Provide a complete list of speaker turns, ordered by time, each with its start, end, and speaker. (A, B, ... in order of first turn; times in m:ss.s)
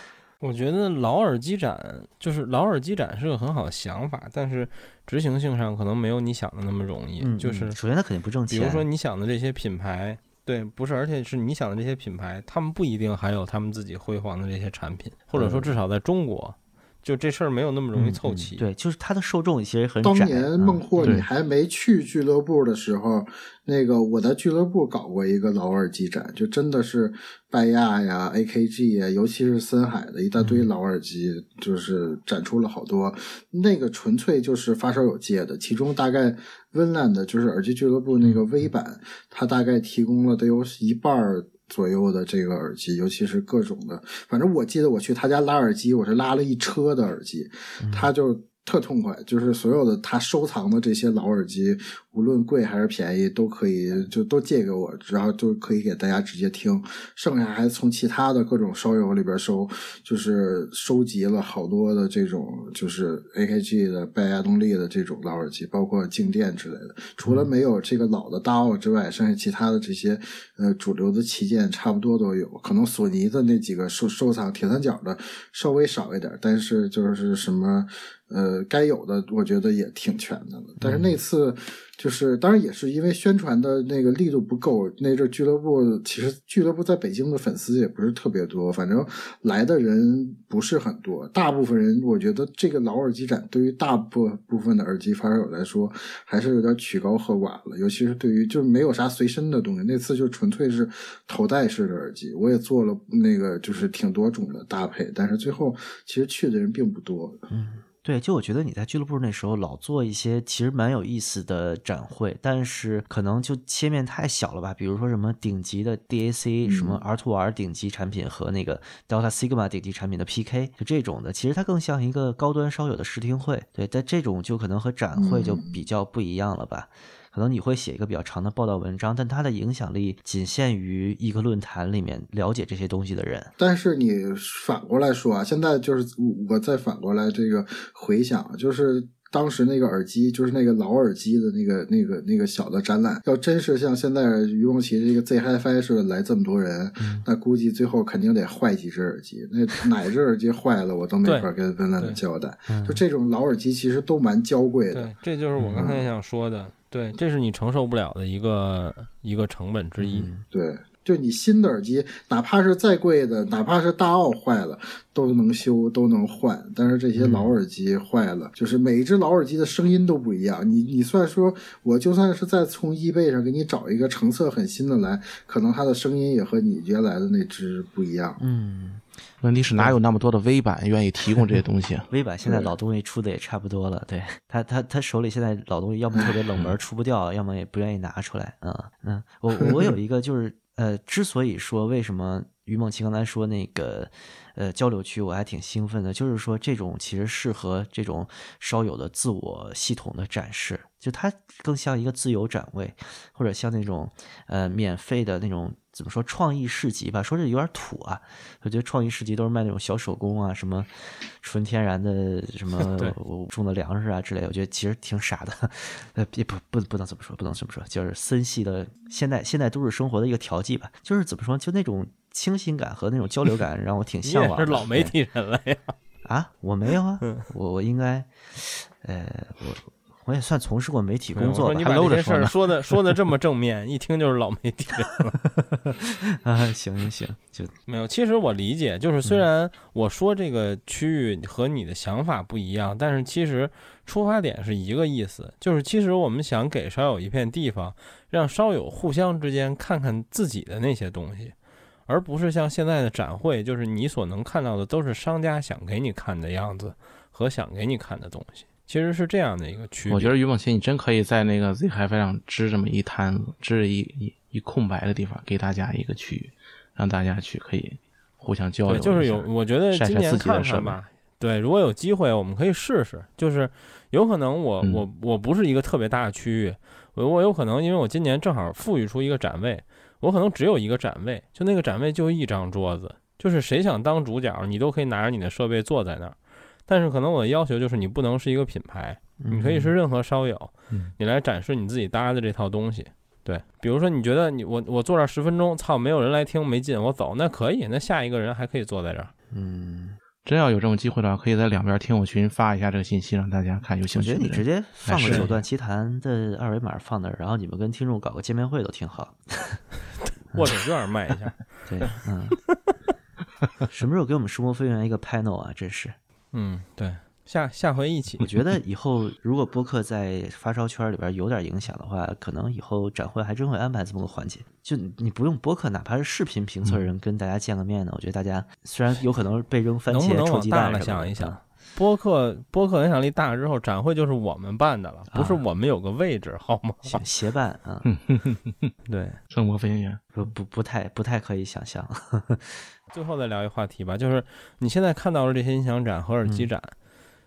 0:00.4-0:07.8 A
0:07.2-0:08.9 B
0:08.5-0:18.6 A
0:15.4-0:15.8 B
0:17.9-0:21.2 B
0:20.0-1:47.4 C
0:21.0-0:21.3 D
0:30.4-0:30.7 B
0:38.2-0:38.7 B
0:47.8-0:48.1 B
1:07.2-1:07.5 B
1:20.8-1:21.2 B
1:47.5-2:13.5 B
1:56.6-1:57.0 C
2:05.2-2:05.8 C
2:13.6-2:35.1 C
2:27.0-2:27.3 B
2:31.2-2:32.2 A
2:32.7-2:33.0 B
2:34.9-2:40.3 A
2:35.6-2:35.9 B
2:35.7-2:36.1 C
2:40.0-2:40.4 B
2:40.5-2:58.4 C
2:47.2-2:47.5 B
2:58.4-2:59.0 B
2:59.4-3:02.1 D
3:02.1-3:45.1 B
3:02.4-3:02.7 C
3:32.8-3:33.2 A
3:44.2-3:46.0 A
3:46.2-3:51.8 B
3:51.4-3:55.4 A
3:51.7-3:52.6 D
3:55.4-3:57.7 B
3:57.9-4:11.5 A
4:12.1-4:20.3 A
4:20.1-4:31.0 D
4:28.9-4:59.3 A
4:49.4-4:49.9 B
4:59.5-5:00.2 B
5:00.4-5:05.6 D
5:04.1-5:09.8 B
5:05.2-5:05.5 A
5:10.3-5:12.1 A
5:11.9-5:12.6 B
5:13.9-5:16.2 B
5:16.5-5:18.5 A
5:18.4-5:31.6 B
5:30.1-5:37.2 A
5:35.3-5:35.6 B
5:37.1-5:38.1 B
5:38.0-5:38.9 D
5:39.1-5:39.4 A
5:39.5-5:40.2 D
5:40.3-5:42.9 B
5:43.1-5:46.9 A
5:46.4-5:46.7 B